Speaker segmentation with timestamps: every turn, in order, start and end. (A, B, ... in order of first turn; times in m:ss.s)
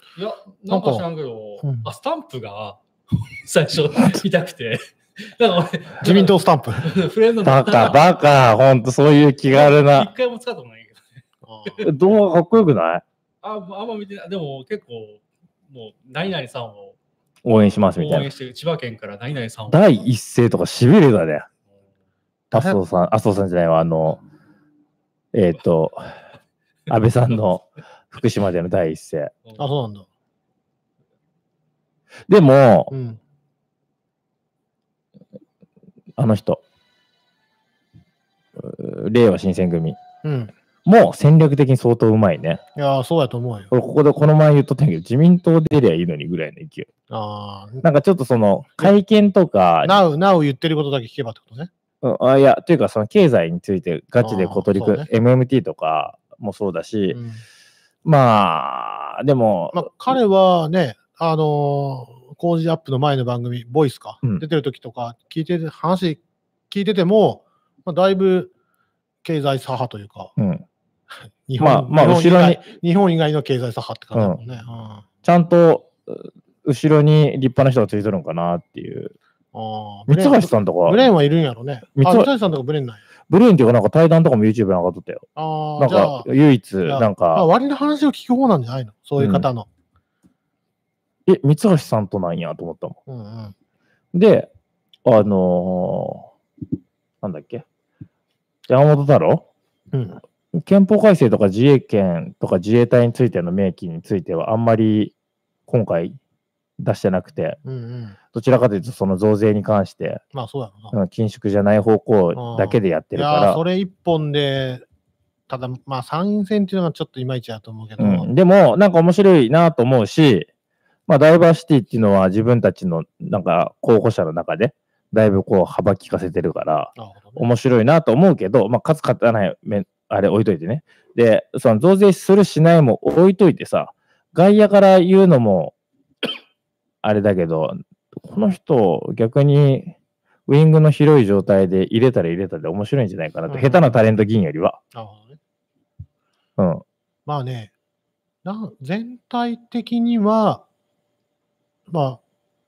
0:00.1-0:08.1 A
0:00.7-0:01.1 B
0:01.6-0:01.9 B
0:06.0-0:07.0 B
0:07.4-0:10.1 C
0:09.5-0:11.9 A
0:11.4-0:11.8 B
0:11.8-0:13.0 C
0:13.4-0:17.0 A
0:17.4-0:18.3 C
0:17.8-0:20.1 A
0:19.7-0:21.4 C
0:22.5-0:24.2 C
0:22.5-0:22.8 B
0:25.3-0:26.2 C
0:26.9-0:29.3 C
0:29.6-0:30.1 B
0:32.3-0:32.9 C
0:32.9-0:33.2 B
0:36.2-0:36.6 C
0:38.6-0:40.0 C
0:40.2-0:40.5 B
0:40.8-0:42.6 C
0:42.7-0:43.7 B
0:43.7-0:46.9 C
0:47.1-0:47.8 B
0:47.8-0:50.0 C
0:49.8-0:51.7 B
0:52.0-0:57.2 C
0:54.2-0:55.1 B
0:57.1-0:57.4 B
0:58.0-0:59.9 C
0:59.7-1:08.5 B
1:09.2-1:10.3 B
1:10.4-1:10.6 C
1:11.1-1:15.0 B
1:11.6-1:12.6 C
1:15.2-1:19.1 C
1:19.5-1:23.0 B
1:20.1-1:21.1 C
1:21.9-1:22.3 C
1:23.3-1:25.3 C
1:25.4-1:26.3 B
1:25.8-1:27.4 C
1:26.8-1:29.7 B
1:29.2-1:29.5 C
1:31.2-1:33.0 C
1:33.1-1:33.5 B
1:34.1-1:34.5 C
1:35.0-1:36.3 C
1:37.2-1:37.6 C
1:38.7-1:39.5 C
1:39.9-1:40.2 B
1:40.5-1:45.1 C
1:45.7-1:46.2 C
1:46.8-1:47.6 C
1:47.6-1:48.2 B
1:48.3-1:50.2 C
1:50.3-1:50.9 B
1:50.9-1:53.6 C
1:52.3-1:54.8 B
1:55.5-1:58.3 B
1:58.0-2:00.5 C
2:01.1-2:15.7 C
2:07.0-2:07.4 B
2:17.0-2:19.9 C
2:20.5-2:24.8 C
2:23.5-2:23.9 B
2:24.9-2:25.4 B
2:26.6-2:26.8 C
2:27.2-2:27.7 B
2:28.4-2:30.6 B
2:31.9-2:32.2 B